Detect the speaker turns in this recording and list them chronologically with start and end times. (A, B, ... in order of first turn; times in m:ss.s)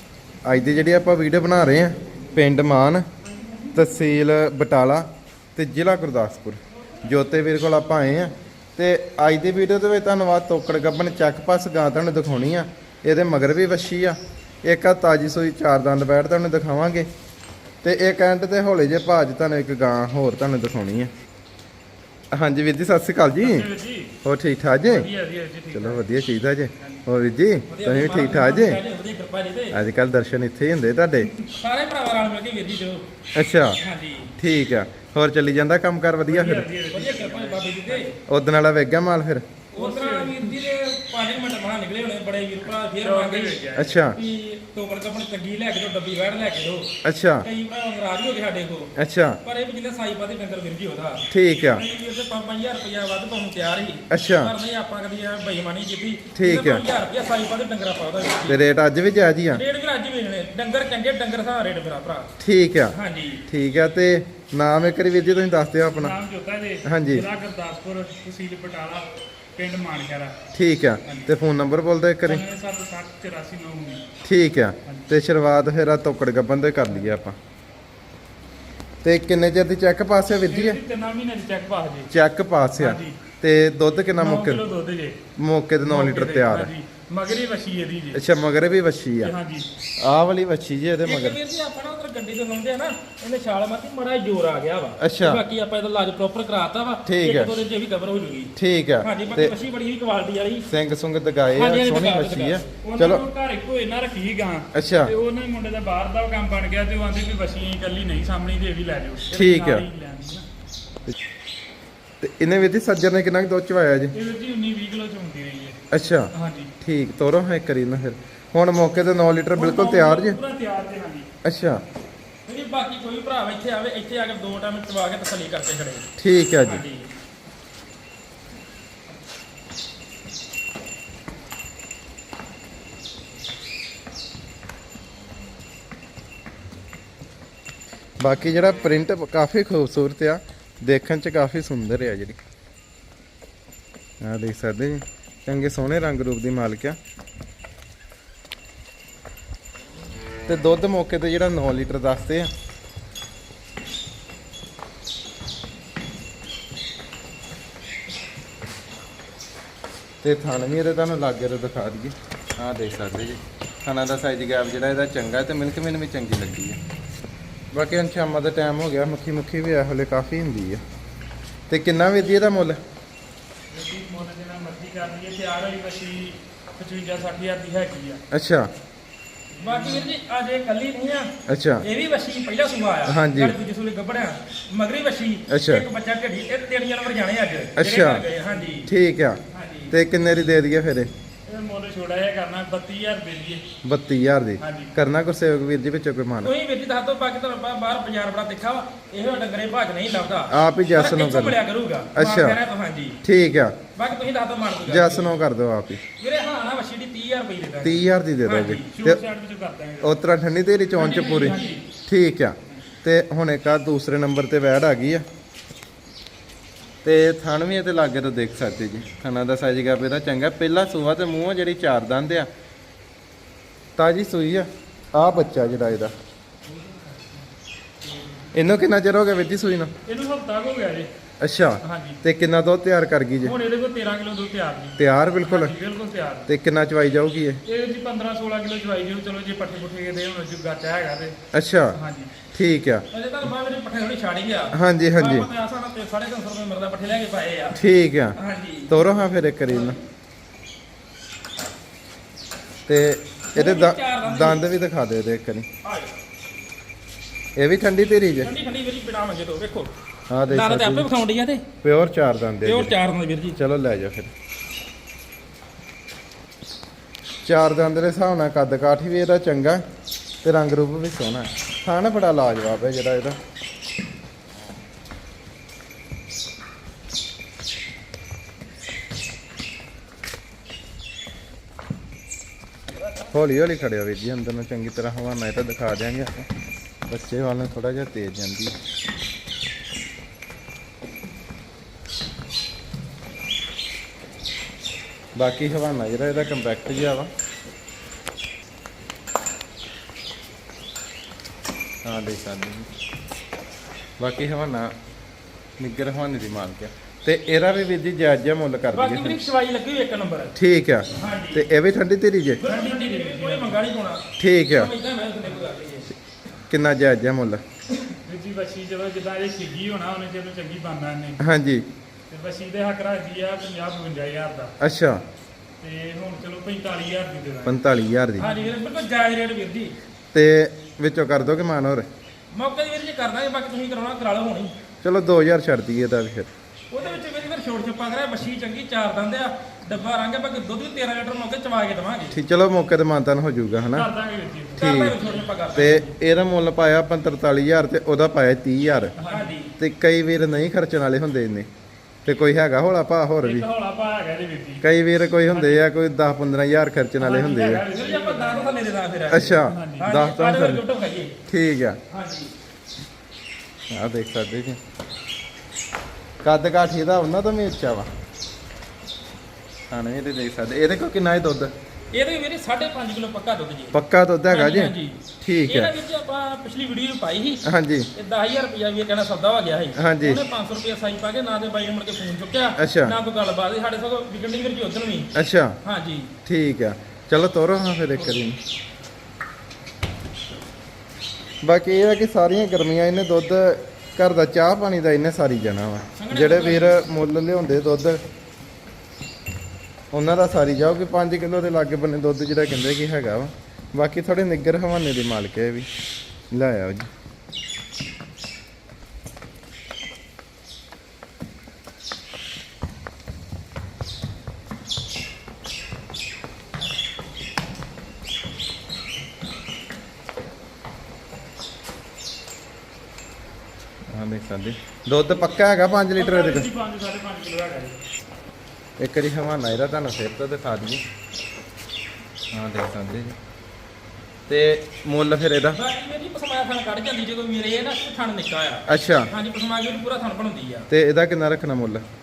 0:00.4-0:03.0 A
0:03.7-0:17.1 A
0:17.8-0:21.1 A
0:22.3-0:23.7 A
0:23.4-0:24.1 B
0:24.2-0:25.1 A
0:24.8-0:26.0 B
0:25.7-0:28.8 A
0:27.7-0:29.8 C
0:29.7-0:31.3 A
0:31.5-0:33.0 C
0:33.3-0:33.8 A
0:33.8-0:34.3 C
0:34.4-0:36.7 A
0:36.3-0:38.0 B
0:36.9-0:38.2 C
0:38.3-0:39.6 A
0:39.7-0:58.6 C
0:39.7-0:40.5 B
0:43.0-0:44.0 B
0:43.7-0:44.2 A
0:47.0-0:47.5 A
0:49.0-0:49.4 A
0:51.3-0:51.8 A
0:54.1-0:54.5 A
0:56.4-0:56.8 A
0:58.5-0:59.6 A
0:59.5-1:02.3 C
1:02.4-1:03.0 A
1:02.9-1:03.4 C
1:03.5-1:06.2 A
1:06.0-1:10.3 B
1:06.8-1:07.3 A
1:10.5-1:12.4 A
1:12.3-1:14.0 B
1:14.2-1:17.4 A
1:14.8-1:15.1 B
1:19.0-1:20.8 A
1:20.5-1:22.1 B
1:22.1-1:24.6 A
1:22.8-1:23.2 B
1:24.2-1:25.2 B
1:25.4-1:26.7 A
1:25.8-1:28.2 B
1:28.1-1:29.3 A
1:29.2-1:29.7 B
1:30.0-1:31.4 A
1:31.0-1:40.7 C
1:35.0-1:35.4 A
1:37.0-1:37.5 A
1:38.6-1:39.6 A
1:40.7-1:43.2 A
1:41.5-1:42.8 C
1:42.8-1:50.4 B
1:44.7-1:45.1 A
1:49.3-1:49.9 A
1:52.2-1:54.1 A
1:54.1-1:55.8 B
1:55.9-2:00.4 A
1:56.3-1:56.7 B
1:59.6-2:01.3 B
2:01.4-2:01.8 A
2:02.5-2:06.1 C
2:06.2-2:06.8 A
2:06.6-2:07.1 C
2:18.2-2:22.4 A
2:24.2-2:27.0 A
2:30.4-2:32.5 A
2:40.2-2:46.8 A
2:47.7-2:50.8 A
2:51.7-2:52.8 A
2:53.7-2:58.2 B
2:58.3-2:58.7 A
2:59.5-3:00.1 B
2:59.6-3:08.9 C
3:01.5-3:01.8 A
3:03.0-3:03.6 A
3:05.5-3:05.9 A
3:07.8-3:08.2 A
3:08.8-3:09.4 A
3:09.5-3:10.0 C
3:09.9-3:11.1 A
3:11.5-3:13.6 B
3:13.8-3:16.5 A
3:14.6-3:14.9 B
3:16.4-3:23.2 C
3:20.5-3:21.6 A
3:22.1-3:22.6 A
3:23.2-3:23.8 A
3:23.9-3:25.3 C
3:24.8-3:26.0 A
3:26.2-3:28.9 C
3:27.8-3:29.2 A
3:28.9-3:30.2 B
3:30.0-3:35.2 A
3:30.9-3:31.8 B
3:37.0-3:42.5 A
3:44.0-3:46.1 A
3:46.8-3:47.2 B
3:48.5-3:49.9 A
3:50.1-3:51.1 B
3:51.4-3:53.6 A
3:51.8-3:52.2 B
3:53.4-3:56.5 B
3:55.0-3:55.8 A
3:56.5-3:57.6 A
3:57.6-4:01.4 B
4:01.5-4:02.0 A
4:01.9-4:02.3 B
4:02.5-4:03.0 A
4:03.1-4:07.8 C
4:04.7-4:05.5 A
4:07.7-4:08.4 A
4:08.4-4:09.0 C
4:08.9-4:10.0 A
4:09.6-4:10.0 C
4:12.9-4:15.7 A
4:13.5-4:14.6 C
4:15.8-4:16.2 C
4:17.6-4:18.5 A
4:18.4-4:19.9 C
4:20.3-4:21.1 A
4:20.5-4:21.7 C
4:21.8-4:23.0 A
4:22.6-4:23.6 C
4:23.6-4:24.3 A
4:27.4-4:29.8 A
4:30.4-4:33.4 A
4:43.3-4:46.5 A
4:47.1-4:48.7 A
4:55.4-4:57.3 A
5:02.0-5:02.9 A
5:04.2-5:04.9 A
5:05.8-5:09.4 A
5:08.9-5:10.5 C
5:10.6-5:12.6 A
5:11.2-5:11.6 C
5:12.6-5:16.1 C
5:12.6-5:13.8 B
5:14.4-5:14.9 A
5:16.7-5:17.6 A
5:18.2-5:21.4 B
5:21.4-5:21.8 A
5:22.3-5:24.7 B
5:24.8-5:25.2 A
5:25.8-5:27.8 B
5:27.6-5:28.5 A
5:28.4-5:29.9 C
5:28.4-5:28.7 B
5:30.3-5:32.1 A
5:32.5-5:34.7 C
5:35.0-5:36.5 A
5:36.9-5:42.4 C
5:42.3-5:44.1 A
5:43.9-5:44.9 B
5:44.7-5:46.1 C
5:44.8-5:45.2 A
5:45.7-5:49.1 A
5:49.2-5:49.6 B
5:49.3-5:49.7 C
5:49.8-5:51.7 A
5:52.2-5:53.7 A
5:53.4-5:54.8 B
5:54.8-5:57.9 A
5:55.5-5:55.8 B
5:57.2-5:58.8 B
5:57.9-6:01.4 C
5:59.3-6:00.8 A
5:59.6-6:00.1 B
6:01.5-6:02.0 A
6:02.1-6:02.5 C
6:03.9-6:04.8 A
6:06.4-6:08.1 A
6:09.9-6:11.7 A
6:12.1-6:25.3 C
6:13.9-6:16.0 A
6:17.6-6:18.1 A
6:20.0-6:20.4 A
6:22.8-6:23.2 A
6:25.3-6:25.8 A
6:25.8-6:26.3 C
6:26.4-6:28.6 A
6:31.6-6:38.2 A
6:36.1-6:37.0 C
6:40.1-6:45.9 A
6:46.5-6:47.1 A
7:04.1-7:06.7 A
7:06.2-7:08.0 B
7:09.0-7:11.0 A
7:12.5-7:13.4 A
7:14.5-7:15.8 A
7:15.7-7:20.9 C
7:18.9-7:19.3 A
7:20.9-7:22.0 A